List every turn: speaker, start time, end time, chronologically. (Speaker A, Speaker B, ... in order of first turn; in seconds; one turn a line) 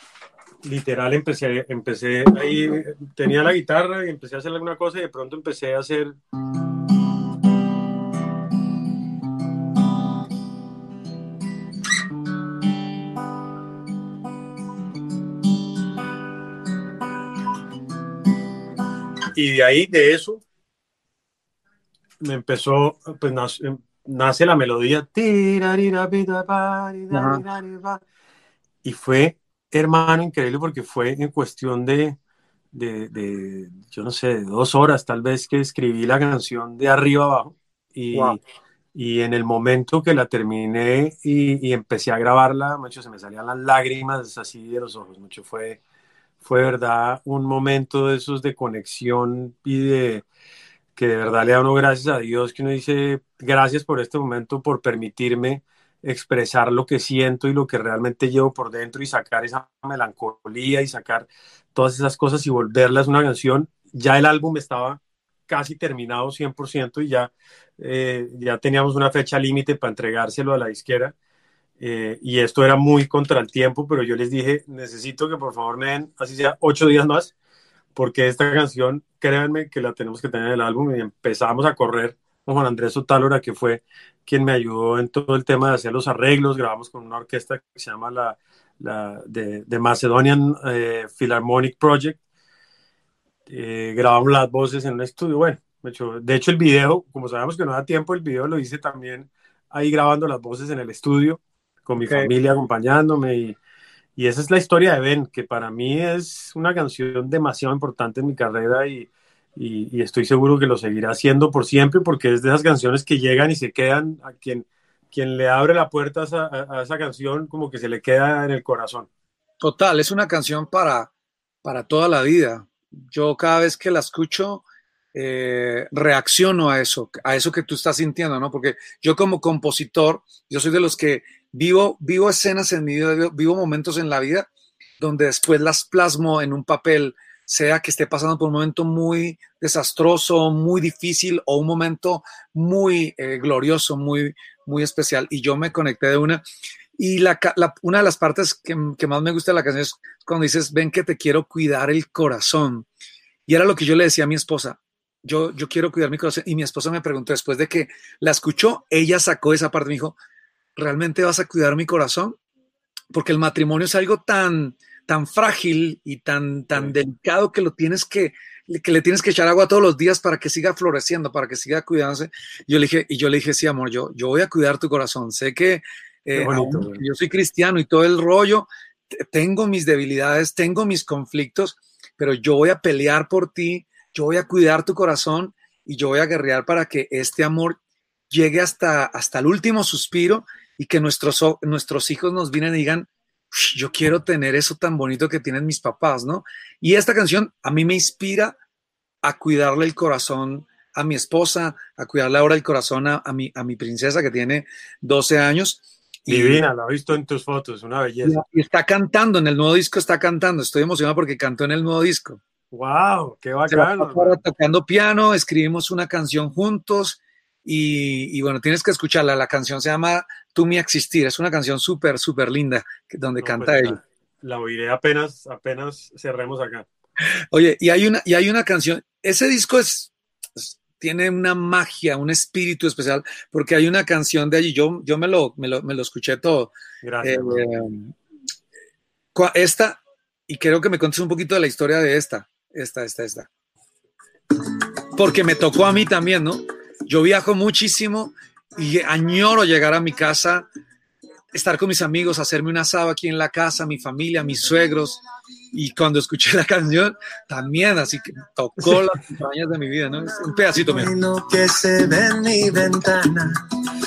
Speaker A: 0.6-6.2
Speaker A: 19.3-20.4
Speaker A: 22.2-28.0
Speaker B: 27.1-27.4
Speaker A: 28.8-32.1
Speaker A: 32.7-38.4
Speaker B: 38.1-38.4
Speaker A: 38.9-45.8
Speaker A: 46.4-50.2
Speaker A: 51.0-71.1
Speaker A: 71.8-77.3
Speaker A: 77.9-92.2
Speaker A: 93.5-103.6
Speaker B: 102.0-102.3
Speaker A: 104.2-119.1
Speaker B: 119.6-121.1
Speaker B: 121.6-124.6
Speaker B: 125.1-134.5
Speaker B: 135.0-146.4
Speaker B: 147.0-152.9
Speaker B: 153.5-160.2
Speaker B: 160.8-162.4
Speaker B: 163.1-187.8
Speaker A: 176.3-177.0
Speaker B: 188.3-198.5
Speaker B: 199.2-206.6
Speaker A: 206.3-208.4
Speaker B: 208.2-212.4
Speaker A: 212.7-214.3
Speaker B: 213.7-224.0
Speaker A: 223.4-226.9
Speaker B: 227.5-238.1
Speaker A: 237.0-237.6
Speaker B: 239.3-243.5
Speaker B: 245.1-250.7
Speaker B: 251.5-255.2
Speaker B: 255.7-261.1
Speaker C: 260.7-263.5